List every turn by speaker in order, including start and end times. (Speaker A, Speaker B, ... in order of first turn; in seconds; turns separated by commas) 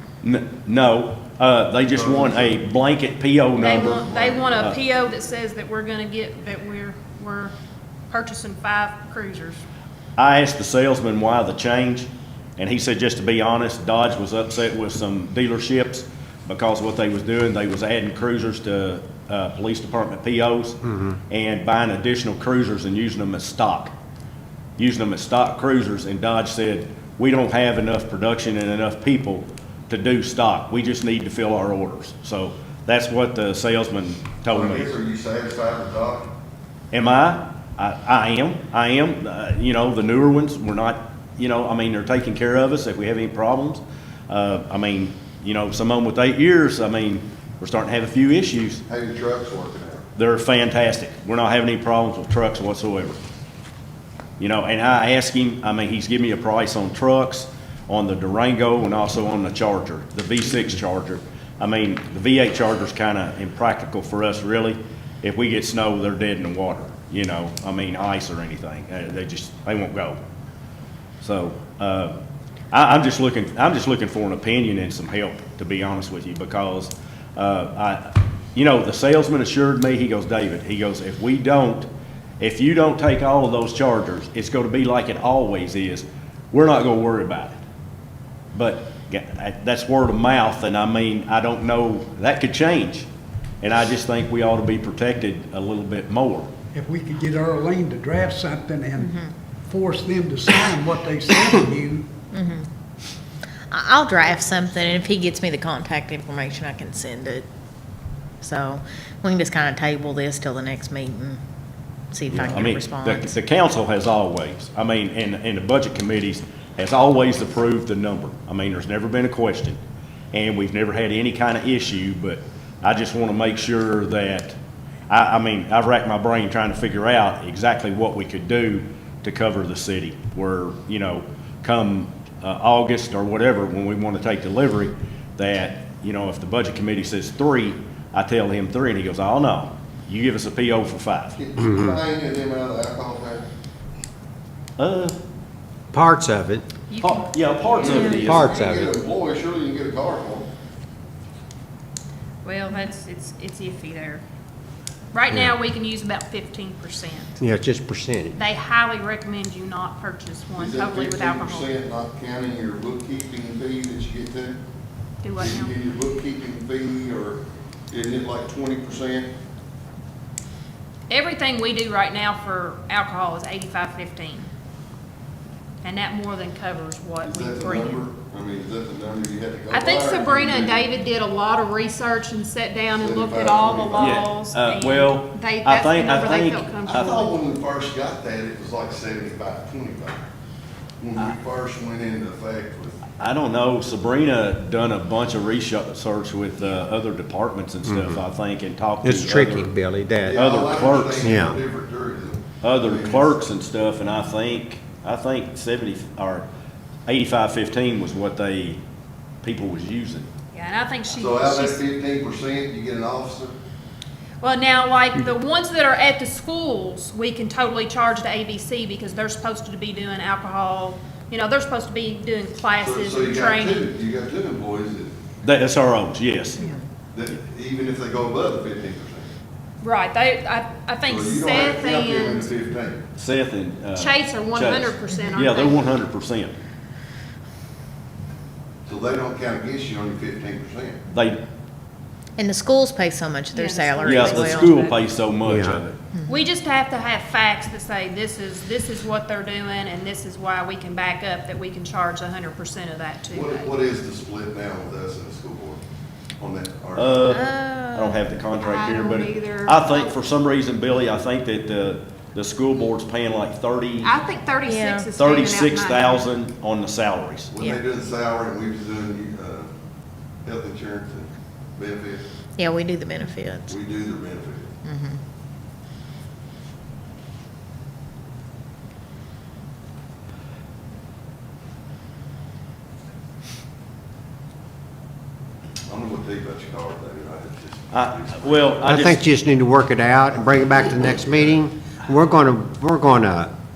Speaker A: 0.2-3.9, Speaker B: 1.9-2.6, Speaker C: 3.6-7.5, Speaker B: 3.6-4.9, Speaker C: 8.1-9.6, Speaker A: 10.2-20.8, Speaker A: 21.3-23.9, Speaker A: 24.8-34.9, Speaker B: 34.5-36.3, Speaker A: 36.9-48.8, Speaker B: 48.9-50.0, Speaker A: 50.1-53.2, Speaker A: 54.4-70.2, Speaker A: 71.2-72.1, Speaker A: 72.7-81.9, Speaker A: 82.4-87.6, Speaker A: 88.5-93.1, Speaker A: 93.6-96.5, Speaker D: 96.7-99.1, Speaker E: 99.0-99.3, Speaker D: 99.7-102.1, Speaker E: 102.3-102.7, Speaker E: 103.7-107.5, Speaker E: 108.4-111.4, Speaker E: 112.1-113.3, Speaker A: 112.3-119.8, Speaker A: 120.3-124.5, Speaker A: 125.1-141.4, Speaker B: 141.3-143.4, Speaker F: 141.6-141.9, Speaker A: 144.8-145.2, Speaker F: 145.9-146.7, Speaker C: 146.9-148.6, Speaker A: 147.0-148.5, Speaker B: 147.8-150.5, Speaker E: 147.9-148.2, Speaker F: 148.1-149.0, Speaker C: 152.4-154.2, Speaker C: 155.1-157.4, Speaker F: 157.4-158.3, Speaker C: 158.3-161.7, Speaker B: 160.6-164.6, Speaker C: 165.2-165.7, Speaker B: 165.4-169.3, Speaker C: 171.1-174.5, Speaker C: 175.8-178.0, Speaker B: 177.2-180.9, Speaker C: 179.7-187.3, Speaker B: 182.9-184.3, Speaker A: 183.9-186.8, Speaker B: 186.8-190.2, Speaker B: 191.0-193.0, Speaker A: 193.2-199.7, Speaker F: 197.9-198.2, Speaker F: 199.0-200.6, Speaker B: 200.2-203.4, Speaker A: 200.3-201.4, Speaker F: 201.2-201.6, Speaker A: 202.6-206.4, Speaker A: 207.1-208.8, Speaker A: 209.4-210.3, Speaker C: 210.5-211.8, Speaker B: 211.1-213.5, Speaker C: 214.4-223.9, Speaker B: 222.8-225.1, Speaker A: 225.4-226.6, Speaker B: 227.1-229.3, Speaker C: 229.8-232.5, Speaker B: 231.1-233.0, Speaker A: 233.2-236.5, Speaker C: 233.9-235.9, Speaker B: 238.8-241.0, Speaker A: 241.1-241.4, Speaker E: 242.4-244.9, Speaker C: 243.5-245.0, Speaker A: 244.0-246.0, Speaker F: 245.4-245.8, Speaker C: 246.2-253.7, Speaker B: 253.3-255.8, Speaker B: 256.4-257.4, Speaker A: 256.9-264.1, Speaker E: 257.3-258.2, Speaker C: 258.5-260.1, Speaker C: 264.0-266.3, Speaker E: 264.6-265.1, Speaker A: 265.1-267.5, Speaker B: 267.5-269.7, Speaker B: 270.4-272.2, Speaker E: 272.6-273.8, Speaker B: 273.7-274.7, Speaker E: 274.8-275.2, Speaker B: 285.9-289.1, Speaker A: 287.9-289.2, Speaker F: 288.8-293.5, Speaker B: 290.3-291.6